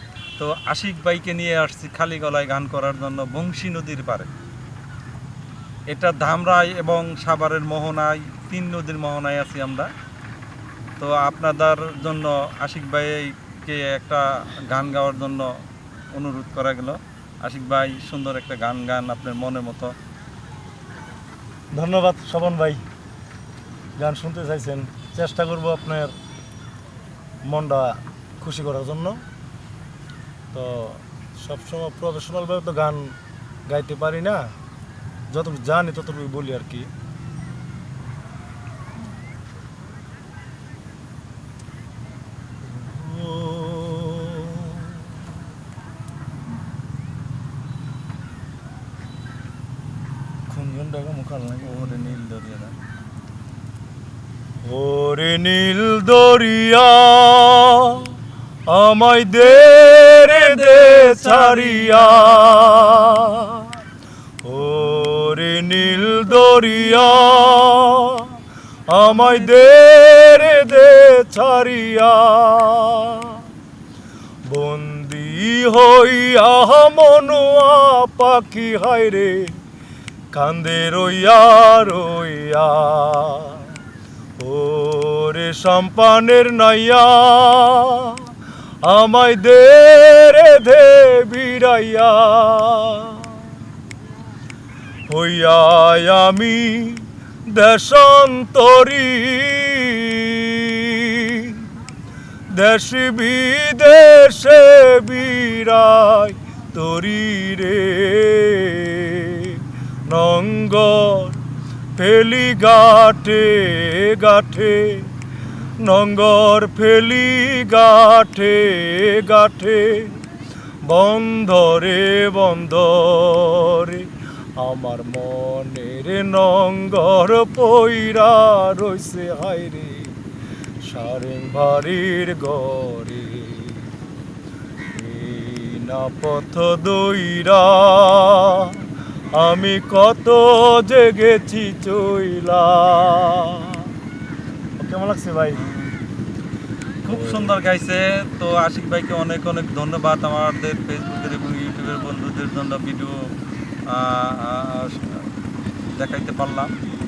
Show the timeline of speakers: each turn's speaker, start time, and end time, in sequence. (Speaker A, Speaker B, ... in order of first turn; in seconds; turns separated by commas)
Speaker A: 0.4-4.3, Speaker A: 5.9-9.9, Speaker A: 11.0-15.5, Speaker A: 16.1-19.9, Speaker B: 21.7-22.8, Speaker B: 24.0-26.1, Speaker B: 27.4-29.2, Speaker B: 30.5-33.1, Speaker B: 33.7-34.5, Speaker B: 35.3-36.9, Speaker B: 42.6-45.2, Speaker B: 50.5-52.2, Speaker A: 51.6-52.7, Speaker B: 54.6-58.1, Speaker B: 58.7-63.8, Speaker A: 60.5-61.7, Speaker B: 64.4-68.3, Speaker B: 68.9-73.4, Speaker B: 74.5-79.6, Speaker B: 80.3-83.7, Speaker B: 84.4-88.3, Speaker B: 88.8-93.4, Speaker B: 95.1-101.7, Speaker B: 102.5-111.4, Speaker B: 112.0-115.1, Speaker B: 115.8-120.2, Speaker B: 120.8-130.2, Speaker B: 130.8-133.9, Speaker B: 134.9-138.8, Speaker B: 139.3-143.9, Speaker B: 144.8-145.6, Speaker A: 145.6-145.9, Speaker A: 147.0-153.2, Speaker B: 147.1-147.6, Speaker A: 153.9-155.3, Speaker A: 155.9-156.7